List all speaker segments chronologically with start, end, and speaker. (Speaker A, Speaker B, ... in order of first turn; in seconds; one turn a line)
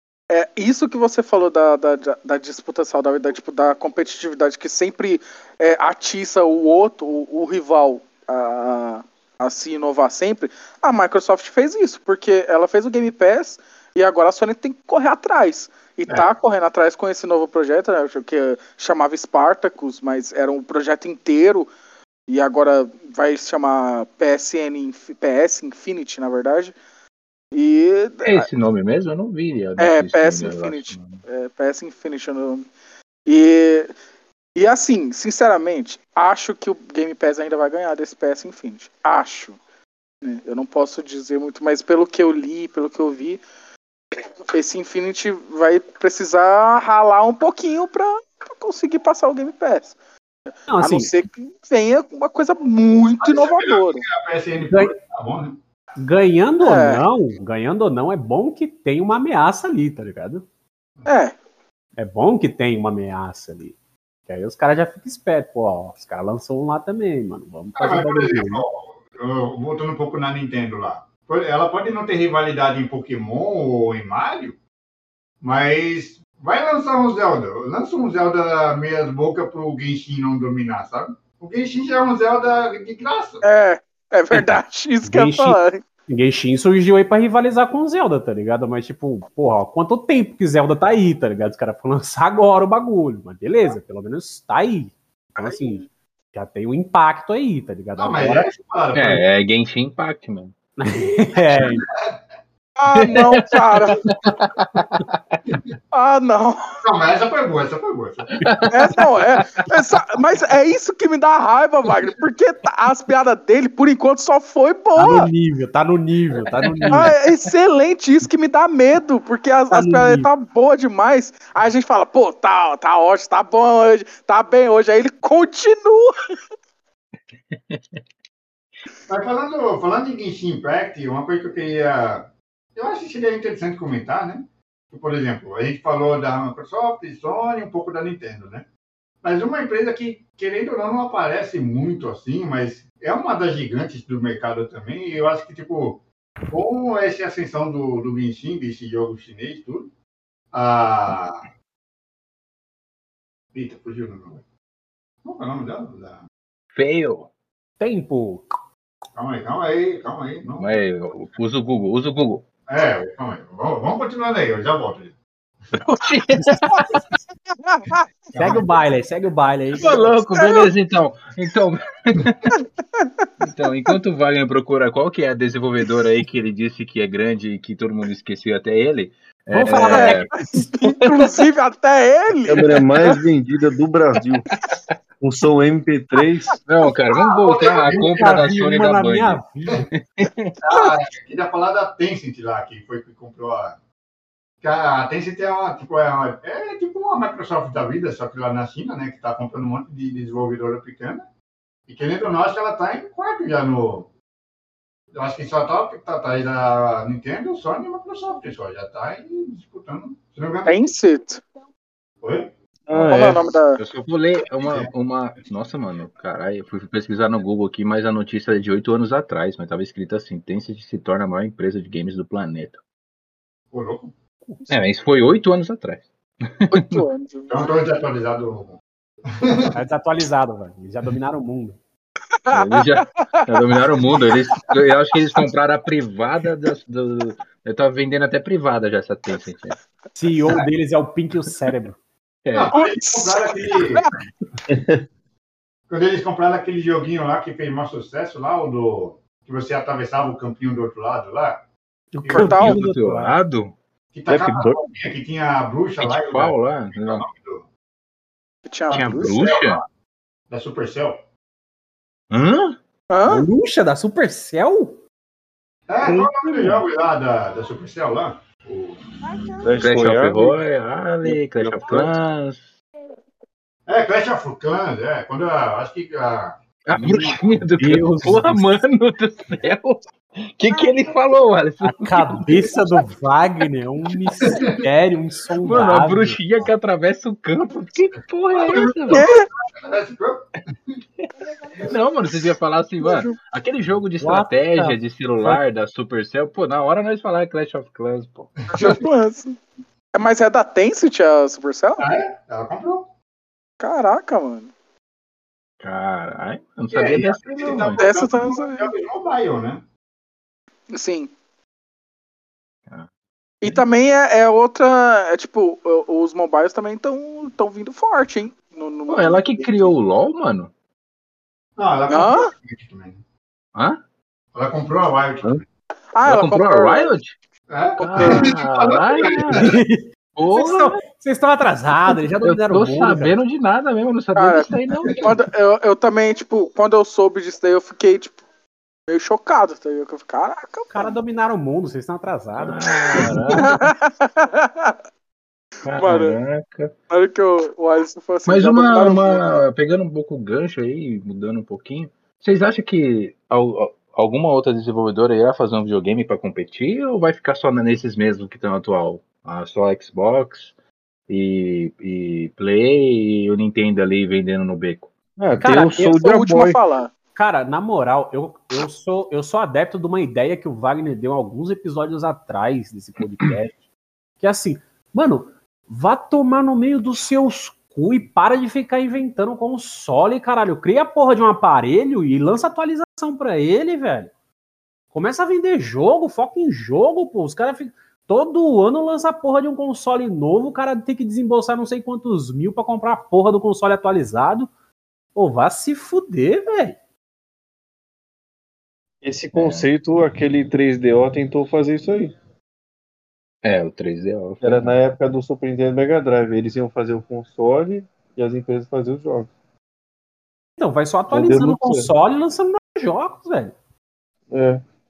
Speaker A: 0.3-21.7
Speaker A: 22.3-26.8
Speaker A: 27.5-28.5
Speaker B: 28.2-31.2
Speaker A: 29.8-32.7
Speaker A: 33.3-33.9
Speaker A: 34.6-39.6
Speaker A: 40.2-43.4
Speaker A: 44.5-49.9
Speaker C: 50.7-51.1
Speaker A: 50.8-54.0
Speaker D: 53.2-55.6
Speaker C: 54.6-55.0
Speaker C: 56.0-60.4
Speaker A: 56.6-57.0
Speaker A: 61.1-61.4
Speaker C: 62.0-63.7
Speaker C: 64.3-68.6
Speaker D: 67.8-74.6
Speaker D: 75.4-83.4
Speaker A: 83.4-85.8
Speaker C: 85.1-98.4
Speaker A: 95.4-95.9
Speaker D: 98.0-99.2
Speaker B: 98.9-100.5
Speaker C: 100.8-101.8
Speaker D: 100.9-102.1
Speaker A: 102.8-104.0
Speaker B: 103.0-105.4
Speaker A: 105.9-106.8
Speaker D: 106.8-108.6
Speaker A: 108.7-115.3
Speaker C: 115.0-117.1
Speaker A: 116.9-126.1
Speaker C: 119.7-120.3
Speaker B: 127.5-128.0
Speaker D: 129.1-138.7
Speaker D: 139.2-149.9
Speaker D: 150.5-151.5
Speaker D: 153.5-154.4
Speaker D: 155.2-156.2
Speaker B: 156.7-157.3
Speaker C: 157.8-158.5
Speaker D: 159.1-160.7
Speaker B: 160.6-162.4
Speaker D: 162.7-165.8
Speaker B: 165.8-167.0
Speaker A: 167.6-168.0
Speaker D: 168.3-168.9
Speaker C: 168.3-170.2
Speaker B: 169.8-172.5
Speaker A: 170.3-170.7
Speaker A: 173.0-173.3
Speaker B: 173.4-180.3
Speaker C: 179.5-180.7
Speaker A: 179.7-183.2
Speaker E: 180.8-181.3
Speaker E: 182.5-184.5
Speaker E: 185.2-186.6
Speaker B: 186.7-189.4
Speaker D: 187.4-188.4
Speaker C: 187.8-189.9
Speaker B: 189.9-190.5
Speaker D: 190.6-193.8
Speaker A: 190.7-191.0
Speaker D: 194.6-201.3
Speaker D: 201.9-204.1
Speaker D: 205.1-210.9
Speaker A: 210.7-211.4
Speaker D: 212.2-212.5
Speaker E: 212.9-213.4
Speaker B: 212.9-222.8
Speaker A: 213.1-213.8
Speaker D: 214.5-214.9
Speaker D: 223.7-224.1
Speaker B: 224.7-227.0
Speaker A: 226.7-227.7
Speaker D: 227.5-229.8
Speaker C: 229.7-231.8
Speaker A: 232.5-233.8
Speaker B: 232.5-239.8
Speaker C: 240.2-242.0
Speaker B: 242.4-242.7
Speaker D: 242.5-244.1
Speaker A: 242.7-244.1
Speaker E: 244.7-245.0
Speaker D: 245.9-251.6
Speaker C: 252.1-253.3
Speaker D: 252.2-252.6
Speaker A: 252.3-252.8
Speaker B: 252.5-253.8
Speaker D: 254.1-257.7
Speaker E: 254.3-254.8
Speaker B: 256.0-257.3
Speaker A: 258.7-259.4
Speaker D: 258.9-259.9
Speaker B: 258.9-259.8
Speaker D: 260.5-261.2
Speaker B: 262.3-262.8
Speaker A: 263.1-263.5
Speaker C: 263.3-265.0
Speaker D: 265.9-269.5
Speaker C: 266.1-266.8
Speaker E: 269.6-270.6
Speaker B: 269.8-272.8
Speaker E: 271.2-272.1
Speaker D: 273.9-276.6
Speaker B: 276.9-282.8
Speaker C: 277.0-278.8
Speaker C: 281.8-286.4
Speaker B: 285.6-289.2
Speaker D: 288.6-291.0
Speaker A: 288.7-289.5
Speaker B: 291.8-298.5
Speaker A: 293.0-293.3
Speaker C: 294.2-295.6
Speaker D: 298.6-299.0
Speaker A: 298.7-299.6
Speaker A: 300.1-302.1
Speaker D: 302.0-303.1
Speaker A: 303.8-304.7
Speaker B: 305.8-308.0
Speaker D: 306.9-309.8
Speaker A: 308.0-308.9
Speaker A: 310.9-311.3
Speaker A: 313.6-319.9
Speaker B: 319.1-320.7
Speaker D: 321.8-323.2
Speaker A: 322.1-322.5
Speaker B: 323.7-324.0
Speaker D: 324.5-325.6
Speaker A: 326.1-327.2
Speaker B: 326.2-327.4
Speaker D: 327.7-329.8
Speaker B: 328.0-329.7
Speaker A: 328.2-328.5
Speaker C: 329.5-333.4
Speaker B: 330.4-331.0
Speaker B: 332.4-335.3
Speaker A: 334.4-338.4
Speaker A: 339.1-341.2
Speaker C: 340.9-343.4
Speaker B: 342.6-343.8
Speaker A: 343.5-345.0
Speaker B: 345.9-346.9
Speaker A: 345.9-346.4
Speaker A: 347.1-349.6
Speaker B: 348.5-360.7
Speaker B: 361.3-365.1
Speaker E: 365.4-366.8
Speaker C: 365.6-366.2
Speaker A: 366.0-367.1
Speaker C: 367.4-373.8
Speaker C: 374.4-384.3
Speaker C: 385.1-394.7
Speaker C: 395.4-397.0
Speaker E: 399.2-402.3
Speaker B: 399.5-399.9
Speaker B: 403.6-404.9
Speaker E: 404.6-409.5
Speaker C: 410.8-413.7
Speaker E: 411.3-412.1
Speaker E: 414.5-414.8